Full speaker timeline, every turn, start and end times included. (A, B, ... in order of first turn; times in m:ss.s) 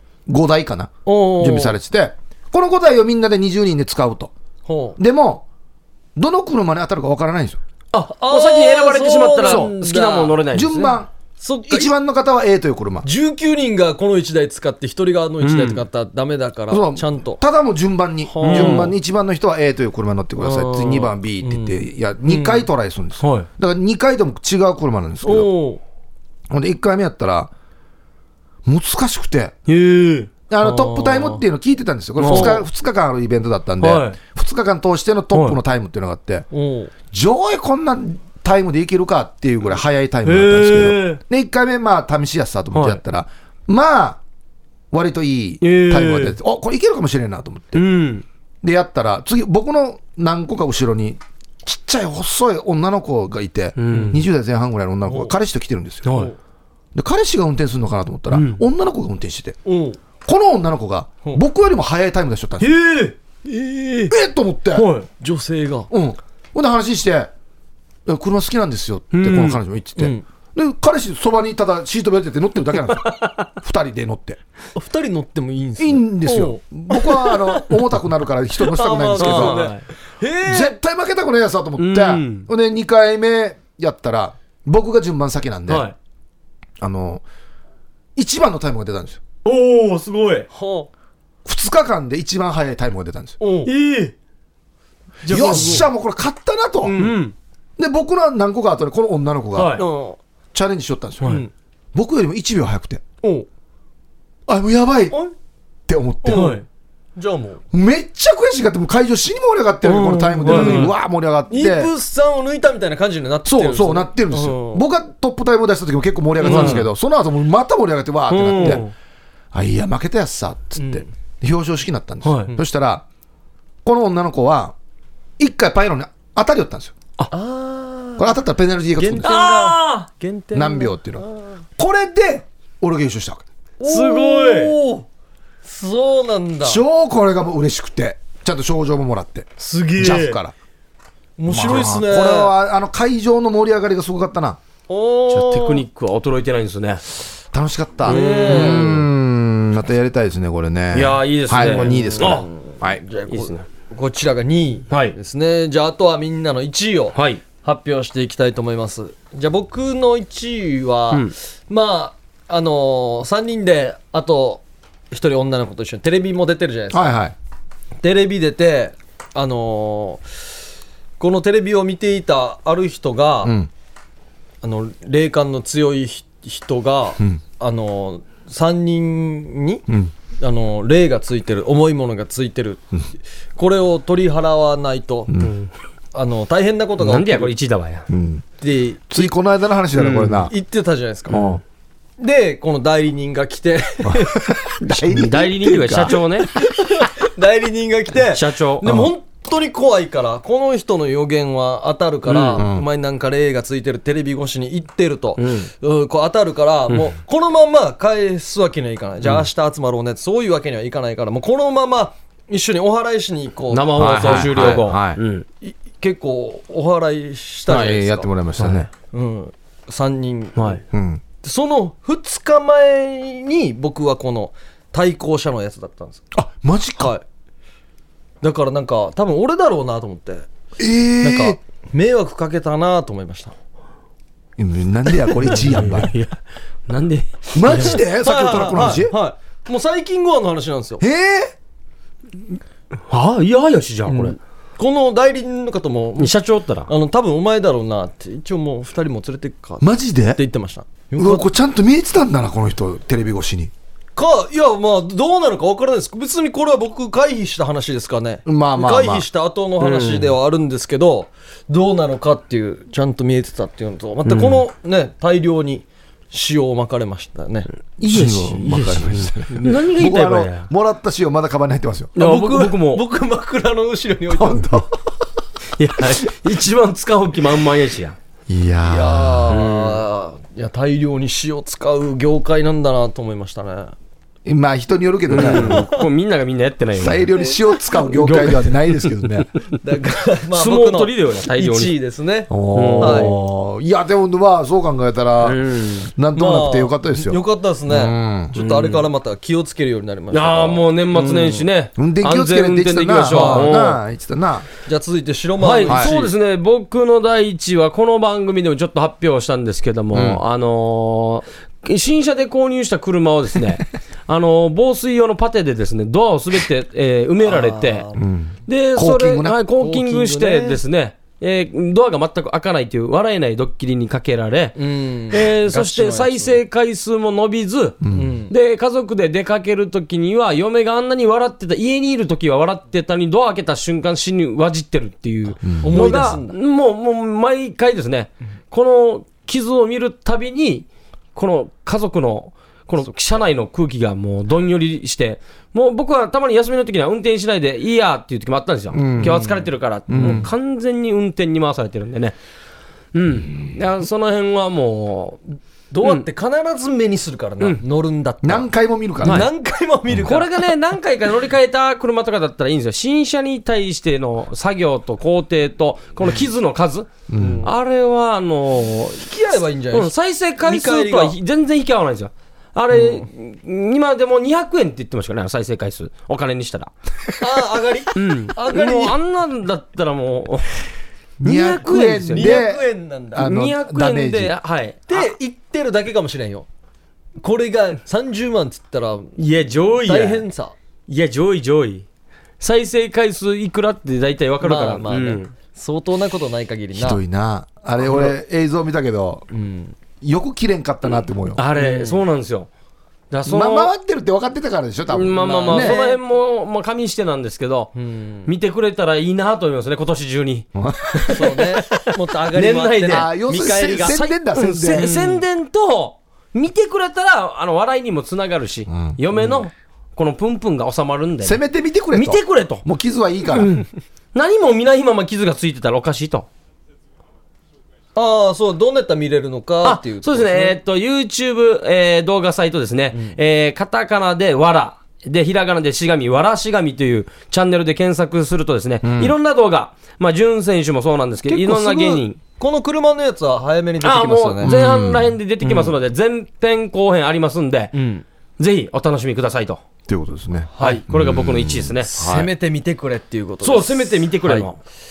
0:00.3-0:04.3 A
0:01.1-0:01.8 B
0:04.7-0:05.0 B
0:05.0-0:05.4 A
0:06.2-0:07.6 A
0:07.9-0:11.0 C
0:08.0-0:10.4 B
0:09.4-0:09.7 A
0:10.5-0:11.1 A
0:11.4-0:11.9 B
0:11.7-0:13.1 A
0:13.0-0:17.4 B
0:15.4-0:15.8 C
0:16.7-0:25.5 A
0:18.2-0:18.9 B
0:18.4-0:19.0 C
0:20.4-0:22.7 B
0:23.2-0:23.5 C
0:25.2-0:25.8 B
0:26.5-0:27.5 A
0:28.7-0:29.6 A
0:29.7-0:30.3 C
0:30.5-0:36.5 A
0:30.6-0:31.4 B
0:32.2-0:32.6 C
0:32.3-0:32.6 B
0:33.8-0:34.2 C
0:36.5-0:36.9 B
0:37.1-0:44.2 A
0:40.2-0:41.2 C
0:42.7-0:43.0 C
0:44.9-0:47.8 A
0:45.6-0:46.4 C
0:47.7-0:48.2 C
0:48.6-0:56.2 A
0:53.8-0:54.2 C
0:55.1-0:55.4 B
0:56.0-0:56.3 C
0:56.1-0:56.4 B
0:57.0-0:59.6 A
0:58.3-0:58.6 C
0:59.6-1:00.0 B
1:00.2-1:02.7 A
1:02.6-1:03.2 C
1:03.5-1:04.1 B
1:04.1-1:04.9 A
1:04.8-1:05.1 C
1:05.2-1:05.9 B
1:05.9-1:07.3 A
1:08.1-1:14.4 A
1:09.1-1:09.6 C
1:10.0-1:10.2 B
1:13.0-1:13.5 C
1:14.8-1:17.8 B
1:15.8-1:19.7 A
1:18.6-1:20.8 B
1:19.2-1:19.9 C
1:20.4-1:25.9 A
1:21.8-1:22.5 C
1:25.7-1:26.0 C
1:26.8-1:27.2 A
1:28.2-1:29.2 A
1:29.4-1:30.5 C
1:30.5-1:30.9 B
1:31.5-1:33.4 A
1:33.4-1:33.7 B
1:33.7-1:34.1 C
1:35.2-1:35.9 B
1:35.3-1:37.0 A
1:36.8-1:37.2 B
1:37.0-1:37.3 C
1:37.8-1:39.8 A
1:39.6-1:39.8 C
1:39.8-1:40.2 B
1:40.5-1:41.4 A
1:41.2-1:41.5 B
1:41.9-1:43.0 A
1:43.2-1:43.5 B
1:44.5-1:45.2 A
1:45.9-1:46.6 A
1:46.2-1:46.6 C
1:46.3-1:46.6 B
1:47.2-1:47.6 B
1:47.7-1:51.9 A
1:49.8-1:50.9 C
1:50.4-1:50.9 B
1:51.5-1:54.8 B
1:53.4-1:58.8 A
1:56.4-1:56.8 B
1:56.4-1:56.9 C
1:58.3-1:58.9 C
1:58.5-1:58.9 B
1:59.5-2:03.0 A
2:00.8-2:01.1 B
2:02.2-2:02.5 C
2:03.8-2:04.8 A
2:05.4-2:06.9 A
2:07.3-2:08.4 B
2:08.2-2:09.3 A
2:09.0-2:11.6 B
2:09.2-2:10.1 C
2:10.5-2:11.2 A
2:11.8-2:13.4 A
2:13.8-2:15.1 B
2:13.8-2:14.7 C
2:15.6-2:16.8 B
2:16.6-2:20.5 A
2:19.6-2:20.4 B
2:21.4-2:22.6 B
2:21.5-2:24.6 A
2:24.9-2:25.8 B
2:25.3-2:27.0 C
2:27.5-2:33.0 A
2:28.1-2:29.0 B
2:28.1-2:29.0 C
2:30.9-2:32.5 C
2:31.7-2:47.2 B
2:33.3-2:33.6 C
2:34.9-2:35.2 C
2:37.2-2:37.4 C
2:46.9-2:47.4 A
2:48.0-2:50.2 B
2:51.2-2:53.6 B
2:53.4-2:53.7 A
2:54.6-2:59.9 B
3:00.4-3:02.8 B
3:03.6-3:05.3 B
3:05.3-3:05.6 A
3:05.4-3:05.7 C
3:06.1-3:07.5 B
3:07.0-3:08.1 C
3:08.1-3:08.4 A
3:08.6-3:09.3 B
3:09.1-3:10.5 A
3:10.0-3:11.4 B
3:11.3-3:11.6 C
3:11.3-3:11.6 A
3:12.2-3:34.7 B
3:14.0-3:16.2 A
3:15.2-3:16.5 C
3:18.3-3:18.9 C
3:18.8-3:19.1 A
3:22.3-3:22.6 C
3:22.6-3:22.9 A
3:25.4-3:25.7 C
3:33.7-3:35.4 C
3:34.0-3:35.2 A
3:35.6-3:38.3 B
3:37.7-3:38.9 A
3:38.6-3:38.8 C
3:39.1-3:40.8 B
3:40.9-3:41.2 A
3:41.4-3:46.2 B
3:46.3-3:47.1 A
3:47.0-3:47.2 B
3:48.4-3:50.5 B
3:50.8-3:51.6 A
3:51.2-3:53.5 B
3:54.6-3:56.1 A
3:55.4-3:55.9 B
3:55.7-3:58.0 C
3:57.5-3:59.1 A
3:58.2-4:01.0 B
4:01.0-4:01.6 A
4:03.1-4:04.4 C
4:04.1-4:06.3 B
4:06.2-4:06.9 C
4:06.9-4:11.5 B
4:09.8-4:10.4 A
4:11.2-4:13.7 A
4:14.2-4:27.7 B
4:18.5-4:19.2 A
4:19.8-4:20.4 C
4:24.2-4:24.6 C
4:28.0-4:32.2 A
4:28.0-4:30.7 C
4:32.2-4:33.0 C
4:32.2-4:34.9 B
4:34.3-4:34.9 A
4:35.8-4:38.2 C
4:38.5-4:39.6 A
4:38.8-4:44.0 B
4:39.5-4:40.0 C
4:44.5-4:45.8 A
4:45.3-4:47.3 C
4:45.4-4:46.1 B
4:47.0-4:49.5 A
4:48.2-4:49.2 C
4:49.8-4:53.4 B
4:50.5-4:52.0 C
4:52.5-4:55.6 A
4:52.7-4:53.4 C
4:55.4-4:56.1 C
4:56.1-4:58.5 A
4:56.4-5:01.6 B
4:58.6-4:59.1 C
5:00.3-5:04.0 C
5:02.0-5:04.7 A
5:03.3-5:03.8 B
5:04.9-5:06.3 B
5:05.6-5:18.1 C
5:05.9-5:06.1 A
5:10.1-5:10.4 A
5:17.4-5:18.2 B
5:18.2-5:19.6 A
5:18.7-5:24.8 C
5:19.8-5:20.8 B
5:24.8-5:26.6 B
5:25.3-5:52.4 C
5:28.0-5:28.4 A
5:28.1-5:28.5 B
5:35.6-5:35.9 A
5:35.8-5:36.6 B
5:48.9-5:49.4 A
5:49.2-5:49.6 B
5:50.1-5:50.5 A
5:50.1-5:50.4 B
5:53.1-5:55.4 C
5:55.9-5:58.7 B
5:58.4-5:59.5 A
5:59.2-6:00.6 B
6:00.2-6:07.1 C
6:07.3-6:07.7 A
6:07.4-6:07.7 B
6:07.6-6:09.2 C
6:09.2-6:11.4 B
6:09.9-6:16.9 C
6:12.9-6:13.2 B
6:17.4-6:19.2 B
6:18.1-6:20.8 C
6:21.4-6:24.6 A
6:21.4-6:22.6 C
6:21.6-6:23.5 B
6:23.4-6:25.3 C
6:25.1-6:26.7 B
6:27.4-6:29.4 B
6:29.4-6:30.4 C
6:30.0-6:30.8 B
6:31.1-6:32.0 C
6:32.6-6:35.5 C
6:34.6-6:37.2 B
6:36.9-6:39.4 A
6:38.0-6:38.3 B
6:39.5-6:40.0 B
6:40.2-6:41.6 A
6:41.6-6:42.7 C
6:41.8-6:42.2 B
6:43.3-6:43.9 C
6:43.5-6:46.0 A
6:45.1-6:48.0 C
6:45.4-6:46.2 B
6:48.0-6:48.5 B
6:48.5-7:01.6 C
6:50.8-6:51.3 A
6:51.3-6:54.2 B
6:53.1-6:55.4 A
6:55.0-6:55.3 B
6:58.9-6:59.6 A
7:01.4-7:03.7 A
7:02.1-7:02.8 C
7:03.5-7:06.5 C
7:08.2-7:10.8 B
7:09.8-7:22.4 C
7:13.1-7:13.4 B
7:19.0-7:19.4 A
7:21.5-7:24.8 B
7:24.0-7:28.0 C
7:24.6-7:25.4 A
7:25.6-7:25.9 B
7:27.9-7:28.2 B
7:28.6-7:29.8 C
7:30.1-7:32.5 A
7:30.8-7:31.0 B
7:30.8-7:32.1 C
7:32.0-7:34.7 B
7:33.6-7:34.8 C